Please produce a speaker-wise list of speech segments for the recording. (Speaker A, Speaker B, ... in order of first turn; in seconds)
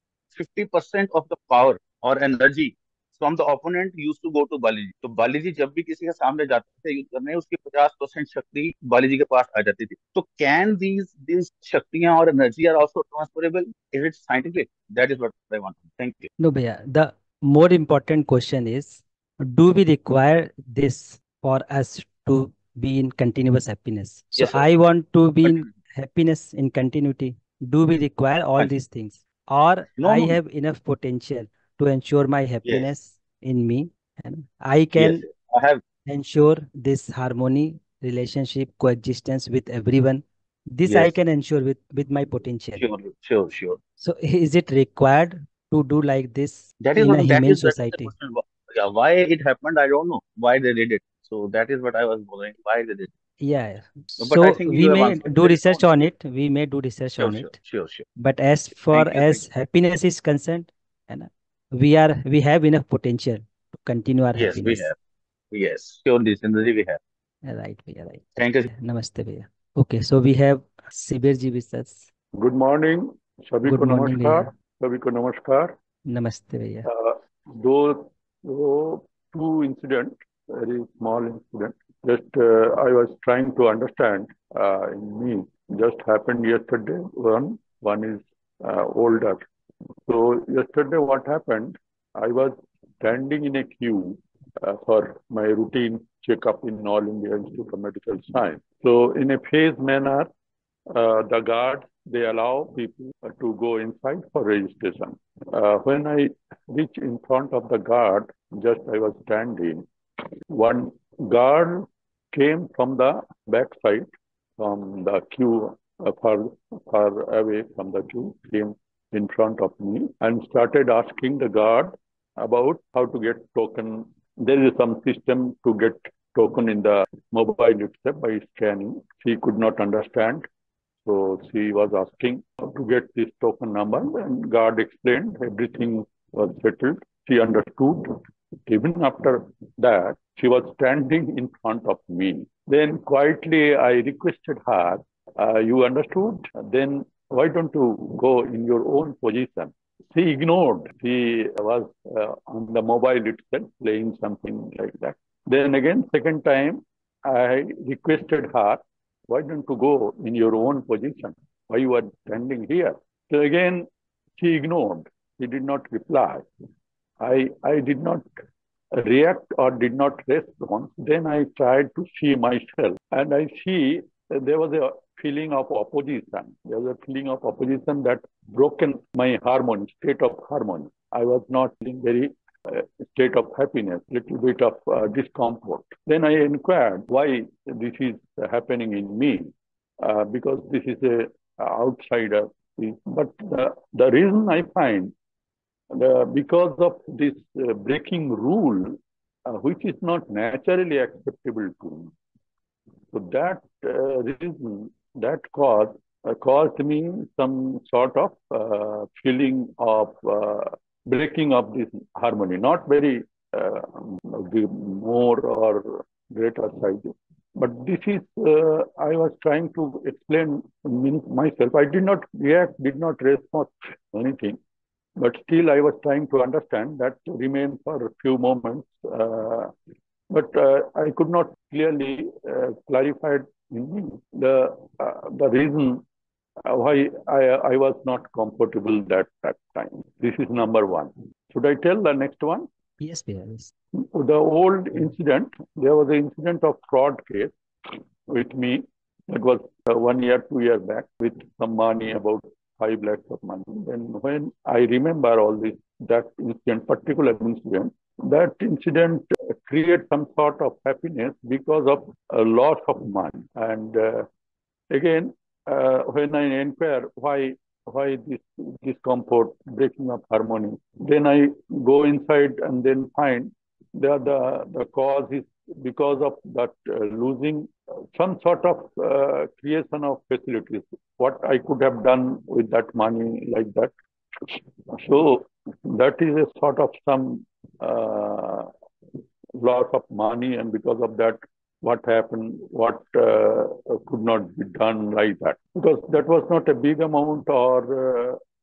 Speaker A: 0.3-16.3, 30.0-30.4, 35.0-35.8, 42.8-43.8, 46.8-53.1, 54.2-55.9, 57.2-58.0, 58.9-59.4, 64.3-64.9, 65.5-67.0, 68.4-68.7
Speaker B: 16.4-35.2, 36.1-42.8, 44.0-48.1, 53.4-57.5, 58.2-64.9, 67.4-72.0, 73.6-74.5, 76.1-76.9, 243.0-243.7
Speaker C: 72.3-75.7, 76.8-89.4, 90.1-100.3, 100.9-109.8, 110.5-130.5, 131.0-163.9, 164.4-166.4, 167.2-168.2, 168.9-195.1, 195.9-202.1, 203.1-224.6, 225.2-229.7, 230.3-236.0, 236.7-242.7, 244.0-264.3, 264.9-288.7, 289.6-298.4